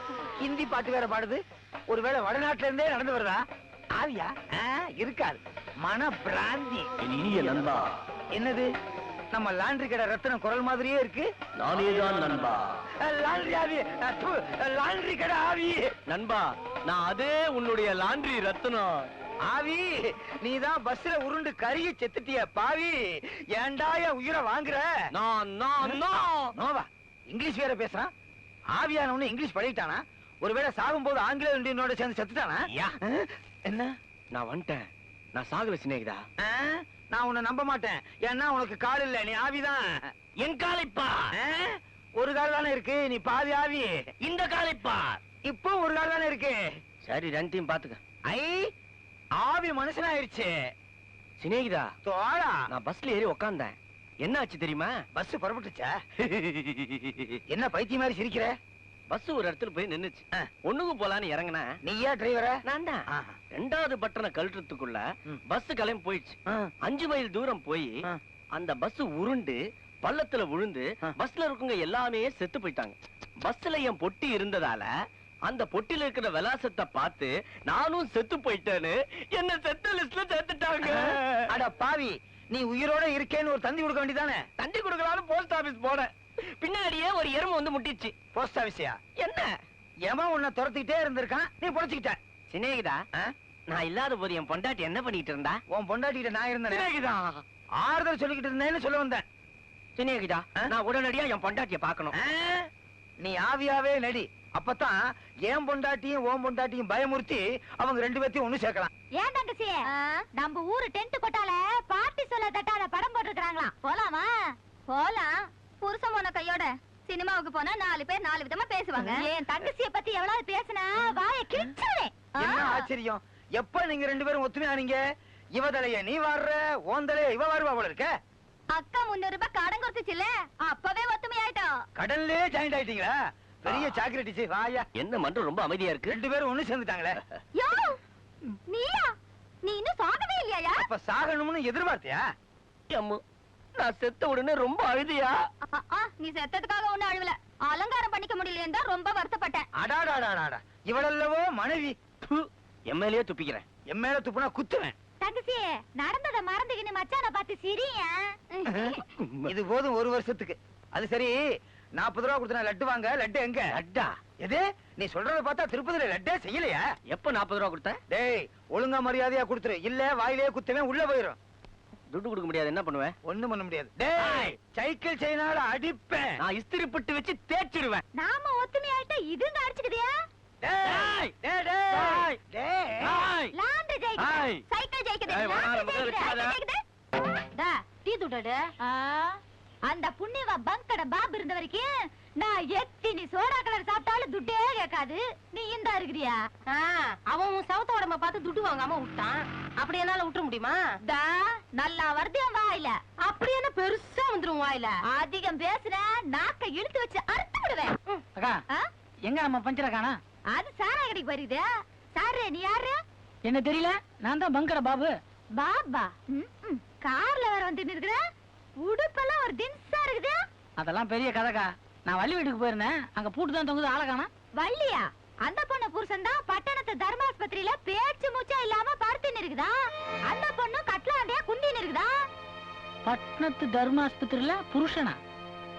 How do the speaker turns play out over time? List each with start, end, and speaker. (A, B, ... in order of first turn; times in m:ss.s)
0:00.4-0:03.4 A
0:03.9-0:06.9 A
0:07.0-0:07.9 B
0:08.3-0:08.7 A
0:09.3-0:11.3 A
0:11.6-0:12.8 B
0:13.0-0:15.9 A
0:16.1-0:19.1 B
0:19.5-0:24.9 A
0:25.1-0:26.5 B
0:26.5-0:28.1 A
0:28.7-0:33.9 A
0:32.7-0:33.0 B
0:34.3-0:36.2 B
0:36.4-0:39.9 A
0:40.4-0:41.3 B
0:41.4-0:44.0 A
0:44.2-0:45.2 B
0:45.4-0:46.6 A
0:47.0-0:48.0 B
0:48.3-0:48.7 A
0:49.4-0:50.5 A
0:51.4-0:51.9 B
0:52.0-0:52.6 A
0:52.7-0:54.9 B
0:55.1-0:55.9 A
0:56.2-0:57.4 B
0:57.5-0:58.5 A
0:59.1-1:01.7 B
1:01.8-1:02.6 A
1:02.6-1:08.0 B
1:08.5-1:14.9 B
1:15.5-1:21.5 B
1:20.8-1:24.4 A
1:24.6-1:28.1 B
1:28.3-1:29.0 A
1:29.2-1:29.5 B
1:30.0-1:32.2 A
1:32.5-1:33.0 B
1:33.7-1:35.6 B
1:35.7-1:36.9 A
1:36.7-1:37.4 B
1:37.8-1:39.2 A
1:40.0-1:42.1 B
1:42.2-1:42.6 A
1:43.2-1:48.9 A
1:49.1-1:54.3 C
1:54.9-2:02.8 C
2:02.4-2:05.0 A
2:05.5-2:08.1 A
2:08.7-2:11.8 C
2:12.0-2:14.8 A
2:13.7-2:14.0 B
2:15.0-2:16.2 B
2:16.1-2:17.2 A
2:17.6-2:18.0 C
2:18.7-2:19.1 C
2:19.6-2:20.8 C
2:20.7-2:22.2 A
2:22.9-2:23.2 B
2:23.8-2:25.3 B
2:25.7-2:29.7 C
2:29.8-2:32.0 A
2:32.2-2:33.6 B
2:33.9-2:34.9 A
2:35.2-2:39.0 C
2:38.7-2:41.4 A
2:39.2-2:39.5 B
2:42.0-2:43.7 A
2:43.7-2:44.1 B
2:44.4-2:46.8 A
2:47.1-2:48.0 B
2:48.1-2:51.4 A
2:52.1-2:53.1 B
2:53.2-2:56.3 A
2:54.2-2:54.5 B
2:56.4-2:58.0 B
2:58.1-3:00.1 C
3:00.6-3:03.2 A
3:00.8-3:01.3 B
3:02.0-3:02.4 B
3:03.0-3:03.6 B
3:03.5-3:06.8 C
3:04.2-3:04.6 B
3:05.3-3:06.6 B
3:07.6-3:08.7 D
3:08.8-3:16.4 C
3:16.7-3:20.9 D
3:21.0-3:23.0 C
3:23.2-3:25.0 D
3:25.0-3:28.0 C
3:29.2-3:30.2 E
3:30.5-3:33.0 C
3:33.4-3:35.1 E
3:35.5-3:38.2 C
3:38.8-3:40.4 C
3:40.8-3:44.3 E
3:44.6-3:52.1 C
3:53.0-3:55.2 E